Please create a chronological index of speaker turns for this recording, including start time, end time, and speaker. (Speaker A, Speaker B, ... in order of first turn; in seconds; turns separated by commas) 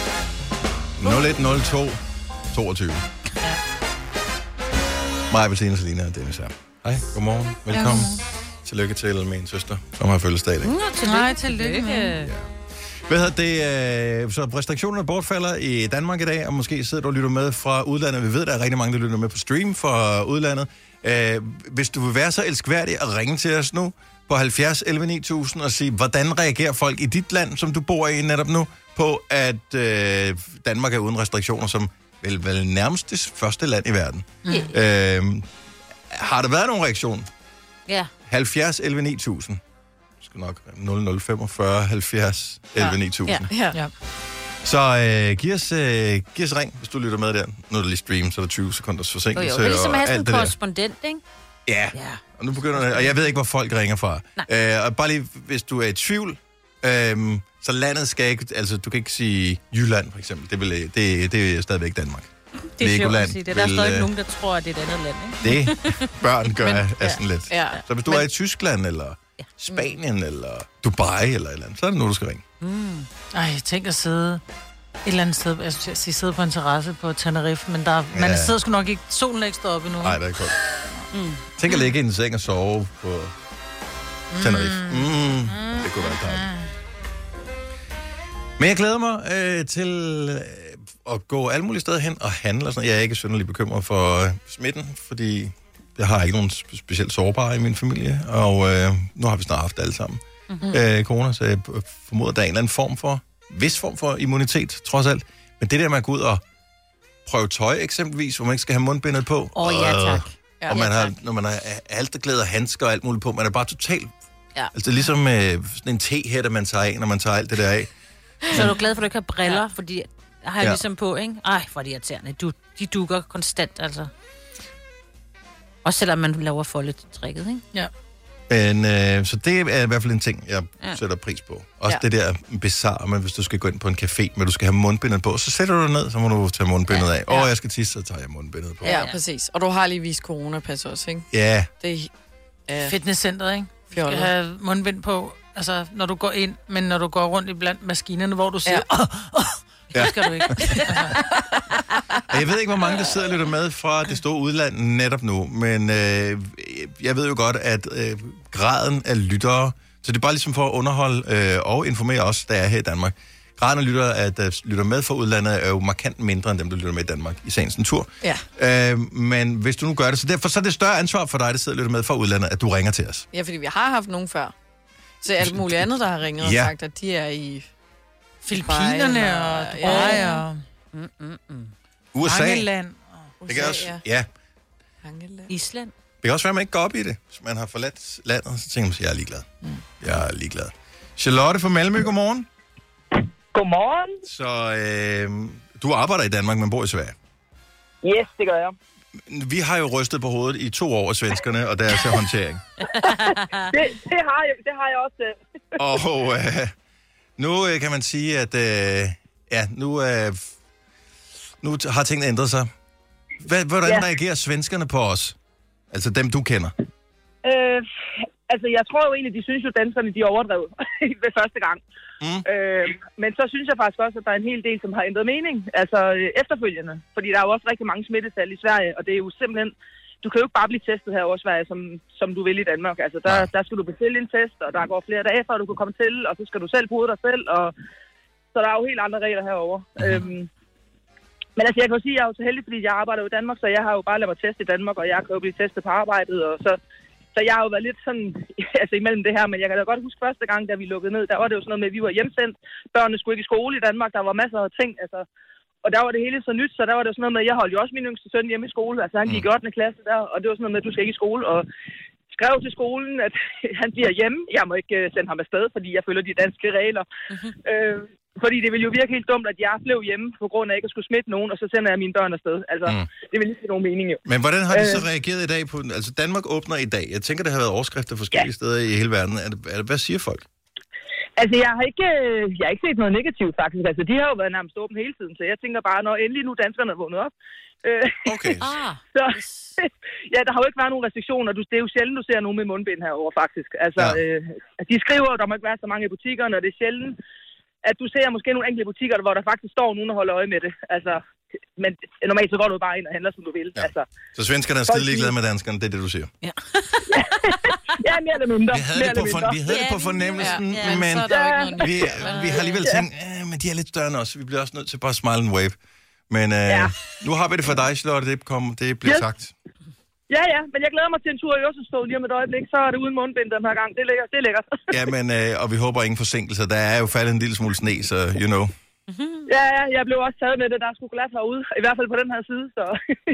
Speaker A: 1.0-2.0, Speaker A: 2.5-3.0, Speaker A: 5.3-10.7, Speaker B: 7.7-8.2, Speaker C: 10.6-12.3, Speaker B: 11.0-12.1, Speaker A: 12.2-12.5, Speaker A: 13.1-35.5, Speaker B: 34.4-34.7, Speaker C: 34.5-34.7, Speaker A: 36.1-37.3, Speaker A: 38.3-39.6, Speaker A: 40.2-43.5, Speaker D: 43.5-43.8, Speaker A: 44.6-50.5, Speaker C: 49.3-51.2, Speaker A: 51.7-64.1, Speaker C: 51.9-52.2, Speaker C: 62.8-66.0, Speaker A: 65.4-72.4, Speaker D: 66.7-67.8, Speaker C: 72.6-73.1, Speaker B: 73.3-74.4, Speaker B: 75.0-80.2, Speaker A: 78.1-78.6, Speaker A: 80.0-80.5, Speaker C: 81.1-81.4, Speaker A: 81.6-83.3, Speaker B: 84.3-86.7, Speaker A: 84.4-86.5, Speaker A: 88.6-106.4, Speaker C: 100.5-100.7, Speaker A: 107.2-114.1, Speaker C: 109.5-111.1, Speaker A: 114.7-117.9, Speaker C: 118.5-124.1, Speaker C: 125.8-127.6, Speaker A: 128.5-139.0, Speaker C: 138.8-139.2, Speaker D: 138.8-141.3, Speaker A: 141.3-141.7, Speaker D: 141.8-142.1, Speaker D: 142.7-142.9, Speaker B: 142.8-151.2, Speaker D: 143.9-144.3, Speaker A: 149.9-150.8, Speaker A: 152.3-173.2, Speaker D: 173.3-174.5, Speaker D: 175.2-177.6, Speaker A: 175.4-176.7, Speaker B: 178.4-180.6, Speaker D: 178.5-180.4, Speaker C: 179.8-181.7, Speaker A: 182.1-182.7, Speaker B: 182.2-183.3, Speaker D: 183.4-184.0, Speaker A: 183.5-184.3, Speaker D: 185.0-185.5, Speaker C: 185.5-185.9, Speaker A: 186.2-189.5, Speaker A: 190.0-192.5, Speaker E: 193.5-194.2, Speaker A: 194.2-197.2, Speaker E: 198.0-198.7, Speaker A: 199.3-202.6, Speaker C: 202.8-203.7, Speaker E: 203.7-205.4, Speaker A: 205.8-206.7, Speaker A: 207.4-210.5, Speaker A: 211.6-212.7, Speaker A: 213.4-215.3, Speaker A: 215.9-216.7, Speaker E: 217.4-217.9, Speaker E: 218.5-221.8, Speaker E: 222.4-237.7, Speaker E: 238.5-240.5, Speaker A: 240.0-240.2, Speaker E: 241.6-246.8, Speaker E: 247.3-255.2, Speaker E: 255.8-261.7, Speaker E: 262.3-267.1, Speaker E: 267.6-275.0, Speaker A: 274.2-280.4, Speaker E: 281.4-287.3, Speaker E: 287.8-288.3, Speaker A: 288.2-288.7, Speaker C: 288.6-289.7, Speaker E: 289.1-297.2, Speaker E: 297.8-301.2, Speaker E: 301.8-304.1, Speaker A: 303.8-306.3, Speaker E: 304.9-305.3, Speaker C: 306.4-307.4, Speaker E: 307.1-309.6, Speaker A: 308.7-315.8, Speaker C: 309.7-311.2, Speaker D: 310.4-312.6, Speaker C: 312.2-312.8, Speaker A: 316.3-319.5, Speaker E: 316.7-316.9, Speaker E: 320.3-324.8, Speaker A: 324.9-328.7, Speaker C: 329.1-329.5, Speaker E: 329.5-333.0